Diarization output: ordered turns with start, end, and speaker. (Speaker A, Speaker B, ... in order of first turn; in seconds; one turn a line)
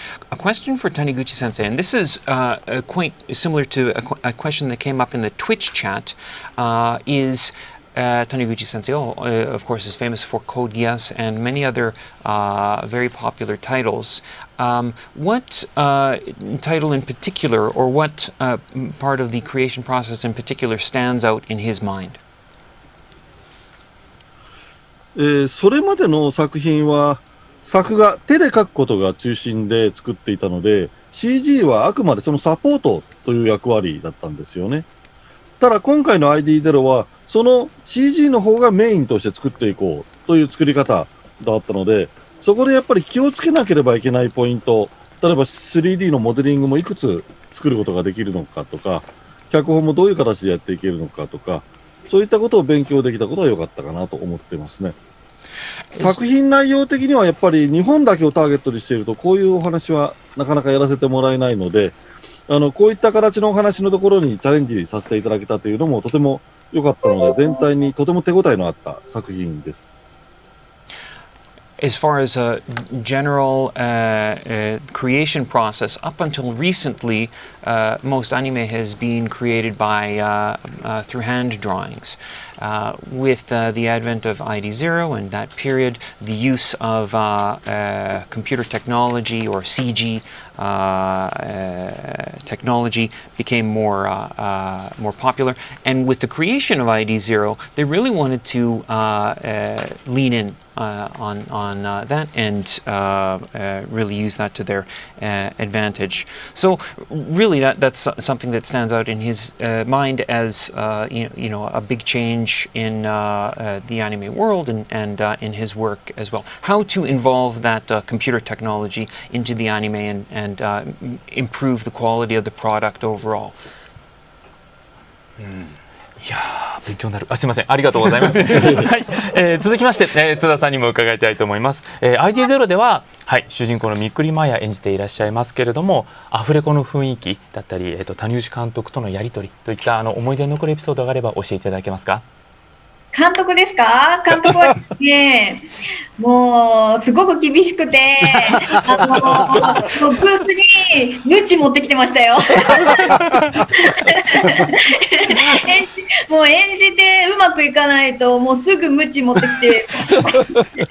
Speaker A: 0.3-22.2
Speaker B: 25.1-34.9
Speaker B: 35.6-55.0
Speaker A: 56.0-56.2
Speaker B: 56.0-62.0
Speaker B: 62.5-69.8
Speaker A: 71.8-123.6
Speaker C: 126.2-142.2
Speaker D: 143.1-145.7
Speaker D: 146.2-153.2
Speaker D: 153.8-160.5